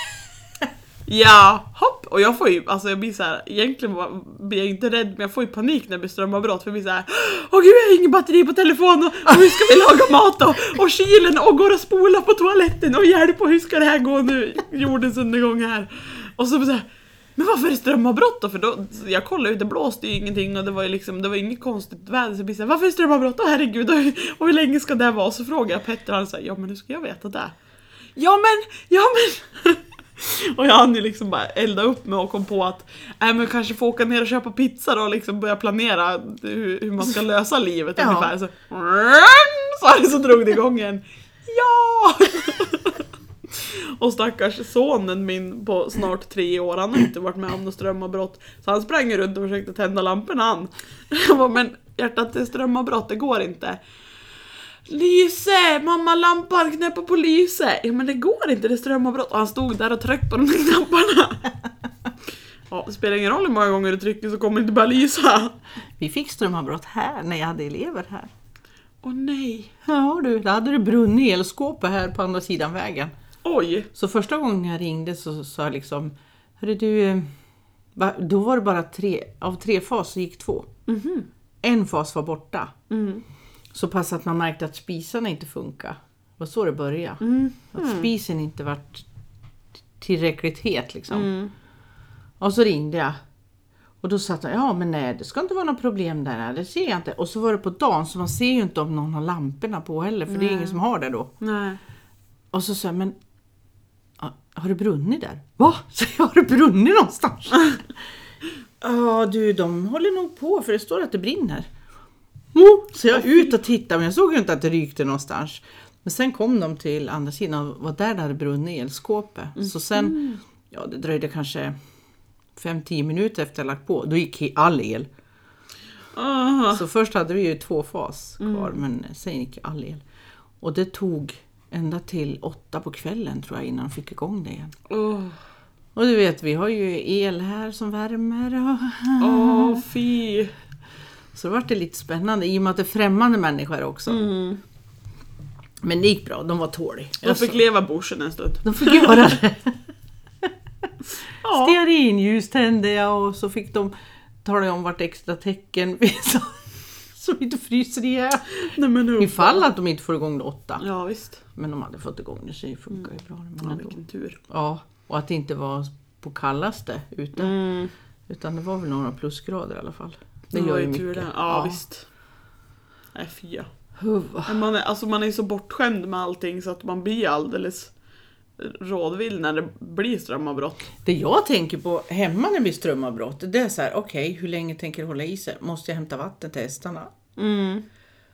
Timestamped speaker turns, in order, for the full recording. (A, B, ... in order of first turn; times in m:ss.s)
0:01.0-0:27.6 A
0:28.2-0:53.8 A
0:38.0-0:38.3 B
0:54.9-1:01.5 A
1:02.7-1:05.6 A
1:06.0-1:08.3 B
1:09.0-1:09.7 A
1:09.8-1:13.1 B
1:13.4-1:13.9 A
1:13.9-1:17.3 B
1:17.9-1:20.7 B
1:20.9-1:21.3 A
1:21.6-1:22.7 B
1:22.9-1:23.2 A
1:23.7-1:29.0 B
1:27.2-1:28.1 A
1:30.0-1:31.3 B
1:31.1-1:31.5 A
1:32.4-1:33.2 B
1:34.0-1:41.3 B
1:40.3-1:40.8 A
1:41.4-1:41.8 A
1:42.5-1:43.2 B
1:44.2-1:48.0 B
1:48.8-1:51.7 B
1:52.5-2:01.7 B
1:59.6-2:00.4 A
2:02.6-2:05.1 B
2:06.1-2:06.8 A
2:06.7-2:10.0 B
2:08.4-2:08.8 A
2:10.6-2:14.7 B
2:14.9-2:15.4 A
2:15.9-2:19.8 B
2:19.2-2:20.5 A
2:21.3-2:24.3 B
2:24.1-2:24.6 A
2:25.8-2:27.6 B
2:27.2-2:29.3 A
2:28.6-2:29.8 B
2:31.4-2:31.8 A
2:31.4-2:33.9 B
2:34.4-2:40.8 B
2:38.5-2:39.6 A
2:40.8-2:41.4 A
2:41.5-2:44.0 B
2:43.6-2:44.4 A
2:44.5-2:47.6 B
2:47.3-2:47.9 A
2:48.3-2:51.8 B
2:50.5-2:52.1 A
2:53.1-2:53.7 A
2:54.0-2:54.5 B
2:54.4-2:57.9 A
2:58.6-3:00.9 A
3:01.0-3:07.1 B
3:07.4-3:07.8 A